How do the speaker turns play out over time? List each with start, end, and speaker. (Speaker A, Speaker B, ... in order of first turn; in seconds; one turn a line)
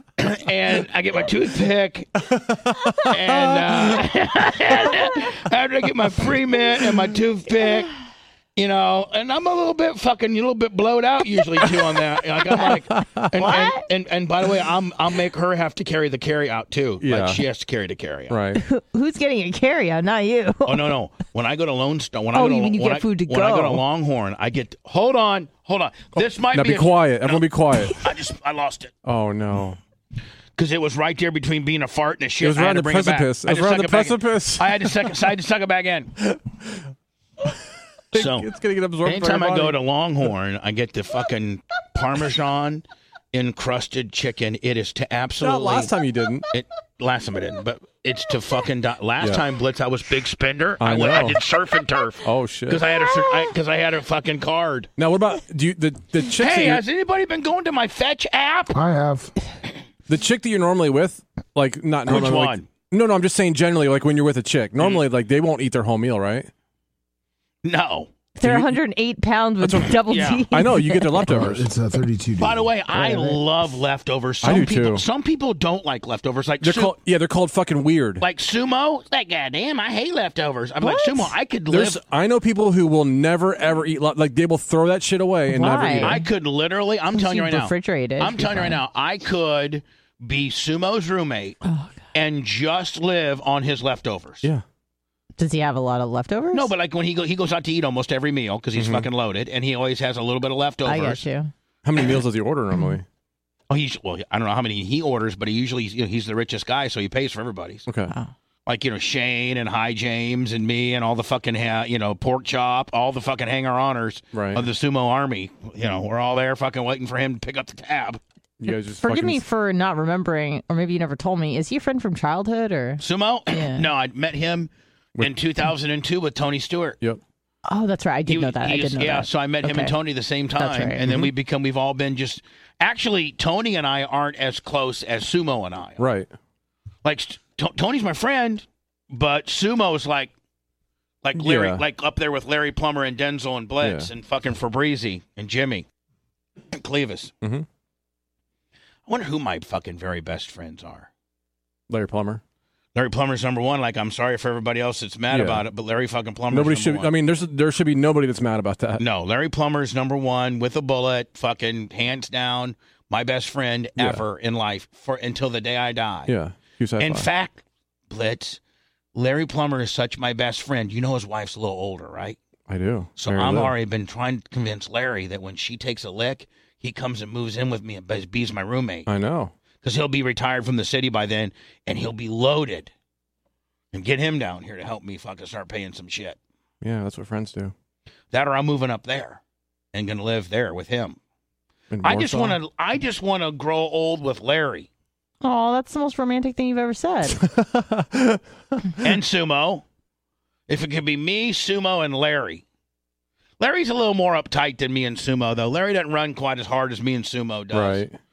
Speaker A: 0.2-2.3
Speaker B: 2.3-3.7
Speaker A: 3.0-7.9
Speaker A: 8.6-18.4
Speaker B: 12.9-13.3
Speaker C: 13.3-13.8
Speaker B: 17.0-17.4
Speaker B: 18.3-18.6
Speaker C: 18.6-20.9
Speaker A: 20.6-28.9
Speaker C: 22.3-23.8
Speaker B: 26.5-28.0
Speaker B: 29.0-29.8
Speaker A: 30.6-36.1
Speaker B: 32.4-35.1
Speaker B: 36.2-36.8
Speaker B: 38.1-39.8
Speaker A: 38.1-38.5
Speaker A: 39.0-45.9
Speaker B: 45.4-46.5
Speaker A: 46.5-54.9
Speaker B: 50.8-51.4
Speaker B: 52.2-52.8
Speaker B: 55.0-56.8
Speaker A: 56.3-58.8
Speaker D: 58.7-59.3
Speaker B: 60.1-66.5
Speaker A: 62.0-62.7
Speaker A: 67.6-68.1
Speaker C: 68.4-71.3
Speaker B: 68.4-68.8
Speaker B: 69.6-70.0
Speaker A: 70.0-70.5
Speaker B: 70.5-71.7
Speaker D: 71.3-72.7
Speaker A: 72.4-77.0
Speaker B: 72.9-73.4
Speaker B: 74.4-75.0
Speaker B: 76.6-78.2
Speaker A: 78.2-82.0
Speaker C: 80.8-81.3
Speaker B: 81.7-86.2
Speaker C: 85.5-86.2
Speaker A: 86.0-91.6
Speaker C: 87.1-88.8
Speaker C: 91.6-92.0
Speaker A: 92.1-94.5
Speaker C: 95.4-96.7
Speaker A: 96.5-101.2
Speaker B: 98.8-99.1
Speaker C: 100.8-101.5
Speaker B: 101.8-103.0
Speaker A: 103.7-107.8
Speaker B: 107.9-108.1
Speaker A: 108.7-118.2
Speaker B: 114.3-114.6
Speaker B: 118.6-119.4
Speaker C: 118.7-123.9
Speaker A: 123.0-127.0
Speaker C: 127.7-129.9
Speaker A: 128.3-136.0
Speaker C: 130.6-131.2
Speaker B: 136.0-136.3
Speaker A: 137.0-140.3
Speaker A: 141.2-145.8
Speaker B: 141.3-141.8
Speaker B: 143.8-144.1
Speaker A: 146.7-147.3
Speaker A: 149.1-151.1
Speaker B: 151.9-152.4
Speaker A: 152.9-157.1
Speaker B: 155.3-155.7
Speaker B: 156.5-159.0
Speaker A: 159.0-166.3
Speaker B: 164.0-164.2
Speaker B: 166.3-167.3
Speaker A: 167.0-168.6
Speaker A: 169.1-172.4
Speaker B: 172.7-173.7
Speaker A: 173.2-179.1
Speaker B: 179.1-179.5
Speaker A: 179.8-182.9
Speaker A: 183.9-186.4
Speaker B: 186.8-187.7
Speaker A: 188.3-189.4
Speaker A: 189.9-191.2
Speaker B: 191.9-192.6
Speaker A: 192.0-194.9
Speaker C: 195.4-197.4
Speaker B: 197.3-198.9
Speaker A: 199.0-199.8
Speaker A: 200.7-202.6
Speaker A: 203.6-208.0
Speaker B: 207.7-208.2